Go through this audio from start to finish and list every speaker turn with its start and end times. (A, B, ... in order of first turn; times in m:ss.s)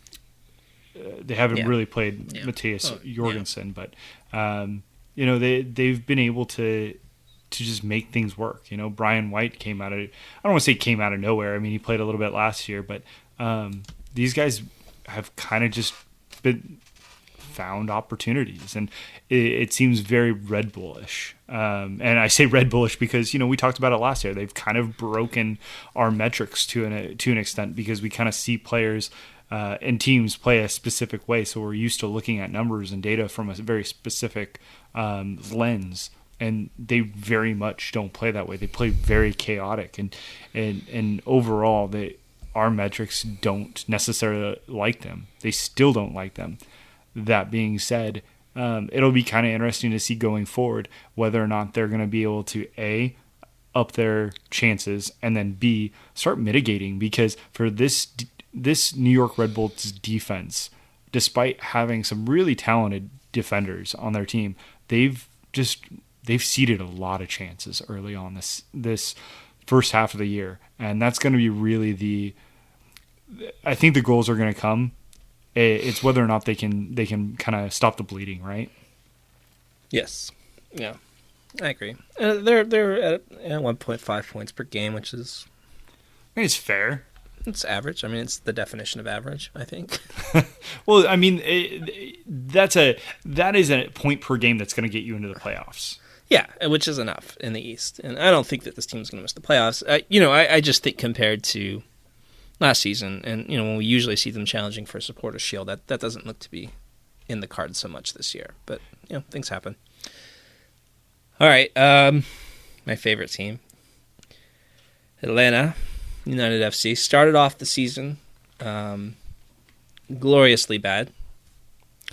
0:00.9-0:07.0 A
0:02.3-0:03.4 B
0:07.5-0:16.8 A
0:17.4-0:46.6 A
0:47.1-0:53.2 A
0:53.7-1:12.3 A
1:13.3-1:14.9 A
1:15.5-1:18.7 A
1:19.9-1:21.0 B
1:21.6-1:25.4 B
1:26.3-1:27.0 A
1:27.4-1:30.0 B
1:30.3-1:36.0 A
1:36.3-1:41.8 B
1:42.6-1:46.7 B
1:47.3-1:49.8 B
1:51.4-1:53.6 B
1:55.2-1:59.2 B
2:00.1-2:01.1 B